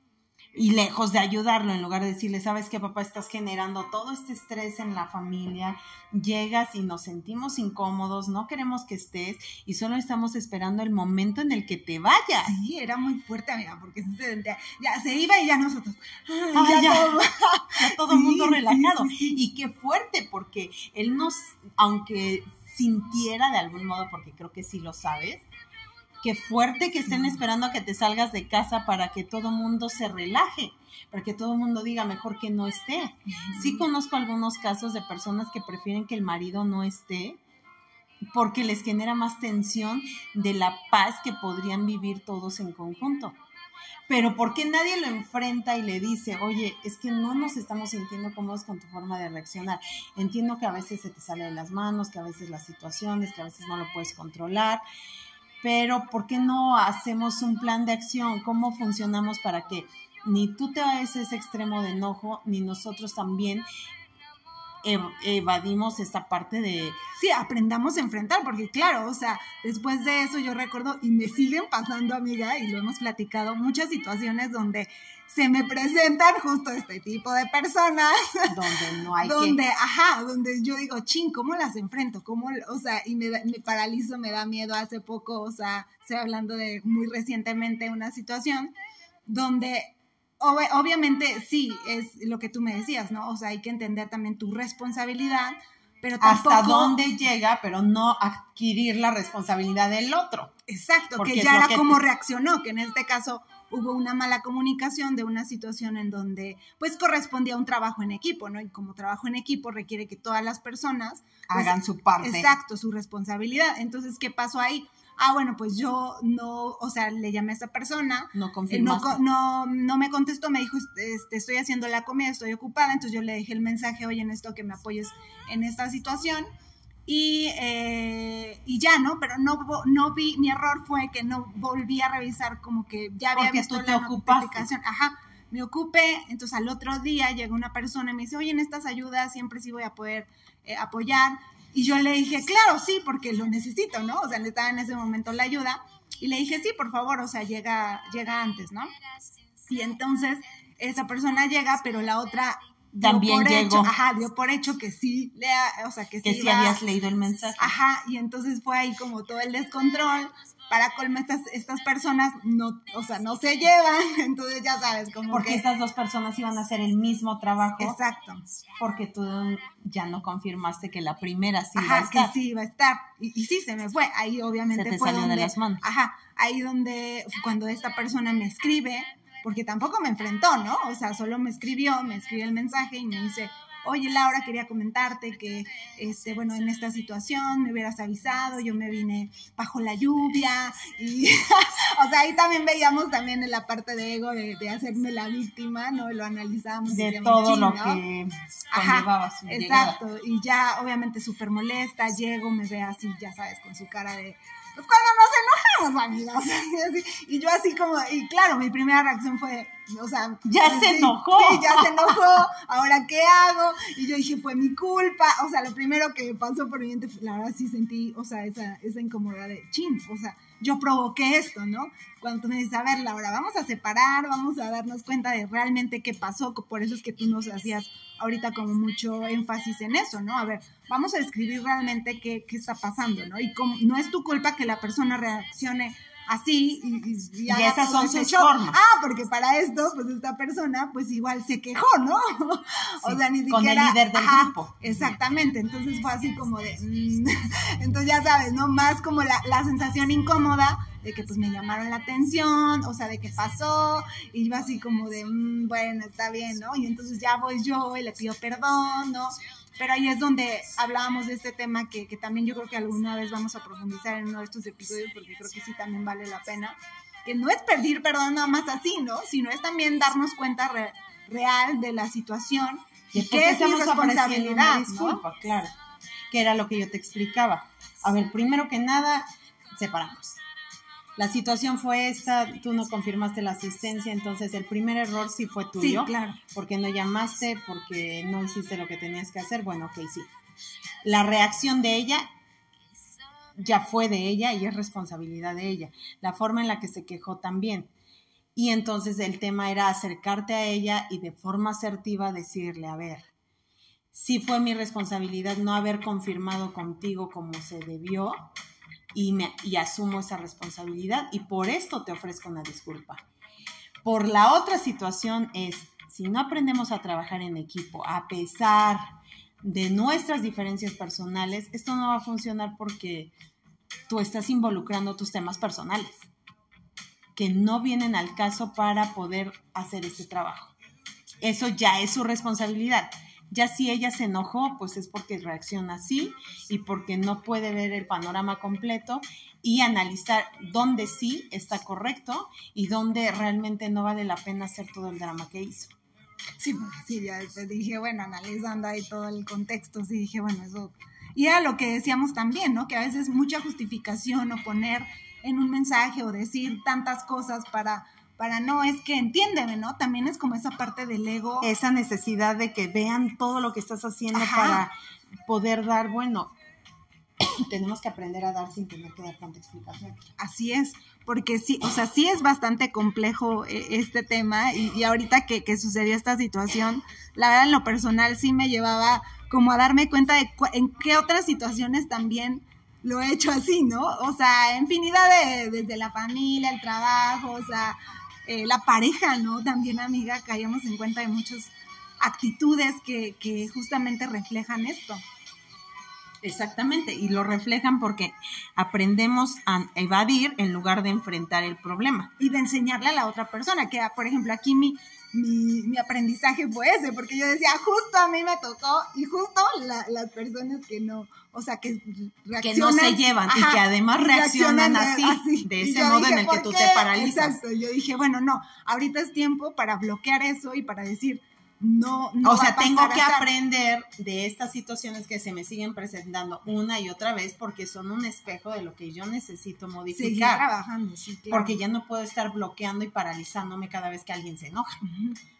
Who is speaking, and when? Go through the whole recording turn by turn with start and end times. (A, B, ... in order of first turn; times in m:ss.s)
0:00.5-0:12.5 A
0:12.5-0:19.4 B
0:16.5-0:25.4 A
0:26.2-0:37.4 A
0:33.3-0:33.9 B
0:38.3-0:43.4 A
0:44.1-0:54.8 A
0:55.6-1:03.6 A
1:04.8-1:07.0 A
1:07.2-1:18.5 B
1:18.5-1:19.6 A
1:19.2-1:28.7 B
1:29.3-1:37.0 B
1:36.2-1:40.5 A
1:40.7-2:06.5 B
1:41.2-1:42.0 A
1:51.5-1:52.5 A
1:58.3-1:59.2 A
2:07.1-2:28.9 B
2:13.3-2:14.7 A
2:29.6-2:36.8 B
2:33.0-2:33.9 A
2:36.2-2:37.7 A
2:37.6-2:45.6 B
2:45.3-2:48.0 A
2:47.8-2:48.4 B
2:48.8-2:52.3 A
2:51.8-3:18.0 B
2:54.7-2:55.8 A
3:16.9-3:20.0 A
3:18.7-4:35.2 B
3:30.4-3:32.2 A
3:57.5-3:58.8 A
4:03.0-4:05.1 A
4:33.1-4:35.7 A
4:36.3-4:40.4 A
4:41.2-4:50.3 A
4:45.8-4:46.4 B
4:51.0-4:52.3 A
4:53.6-4:57.9 A
4:58.5-5:03.3 A
5:04.1-5:08.5 A
5:09.1-5:13.2 A
5:14.0-5:19.1 A
5:19.6-5:23.3 A
5:24.1-5:26.3 A
5:27.4-5:30.7 A
5:31.4-5:45.9 A
5:46.6-6:01.7 B
6:01.6-6:04.9 A
6:04.3-6:04.8 B
6:05.4-6:06.5 A
6:07.5-6:10.3 A
6:10.4-6:35.2 B
6:36.4-6:42.3 A
6:42.4-7:03.5 B
6:52.6-6:57.6 A
7:02.4-7:10.6 A
7:10.1-7:11.8 B
7:11.5-7:15.0 A
7:15.0-7:15.4 B